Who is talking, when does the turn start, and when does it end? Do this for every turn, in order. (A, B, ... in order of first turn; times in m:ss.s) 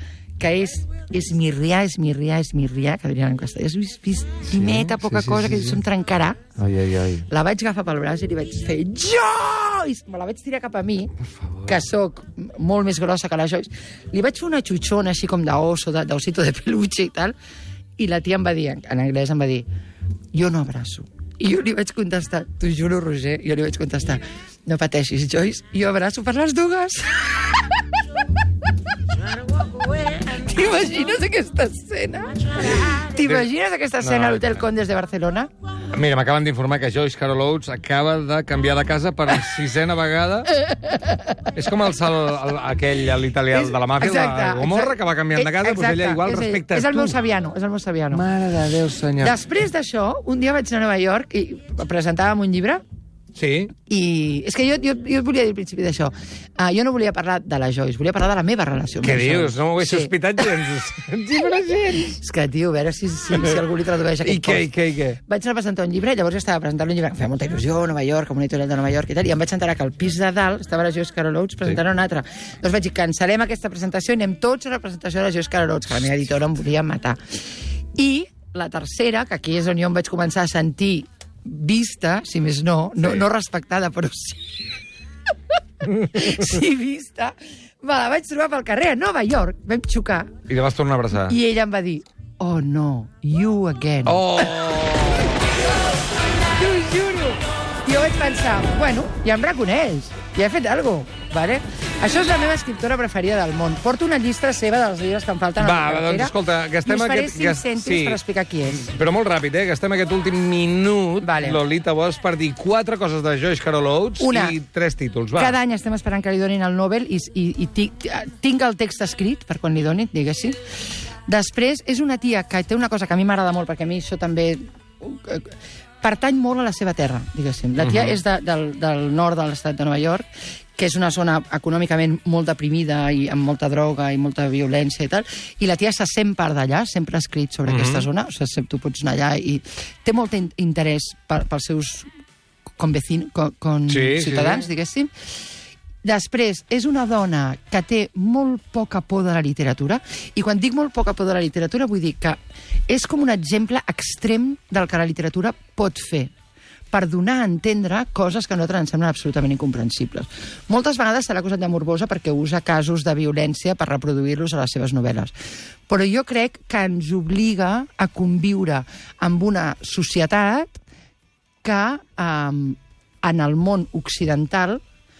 0:00.4-0:06.4 A
0:04.4-0:05.8 B
0:06.6-0:07.2 B
0:07.3-0:11.1 A
0:11.4-0:11.8 B
0:11.6-0:17.4 A
0:18.0-0:19.6 A
0:20.3-0:27.8 A
0:29.7-0:35.5 A
0:33.1-0:33.4 B
0:34.0-0:34.6 B
0:35.9-0:40.5 B
0:40.6-0:41.5 A
0:41.5-0:47.2 B
0:43.5-0:48.2 A
0:48.1-0:49.4 B
0:49.2-0:52.8 A
0:53.4-0:53.7 B
0:53.9-1:00.4 A
0:59.0-1:02.2 B
1:02.1-1:17.2 A
1:03.3-1:03.6 B
1:04.2-1:05.2 B
1:18.0-1:24.6 A
1:23.0-1:23.2 B
1:25.9-1:30.4 A
1:26.0-1:26.4 B
1:30.5-1:31.4 B
1:31.1-1:34.4 A
1:34.1-1:35.4 B
1:36.5-1:46.3 A
1:45.6-1:48.2 B
1:46.8-1:48.9 A
1:48.7-1:55.6 B
1:51.2-1:51.6 A
1:54.2-1:54.6 A
1:55.4-2:00.6 A
2:01.3-2:10.2 A
2:07.8-2:08.2 B
2:10.8-2:22.1 A
2:17.7-2:18.1 B
2:22.8-2:25.1 A
2:23.9-2:24.7 B
2:26.0-2:36.3 A
2:36.9-2:45.3 A
2:45.9-2:50.8 A
2:51.6-2:54.8 A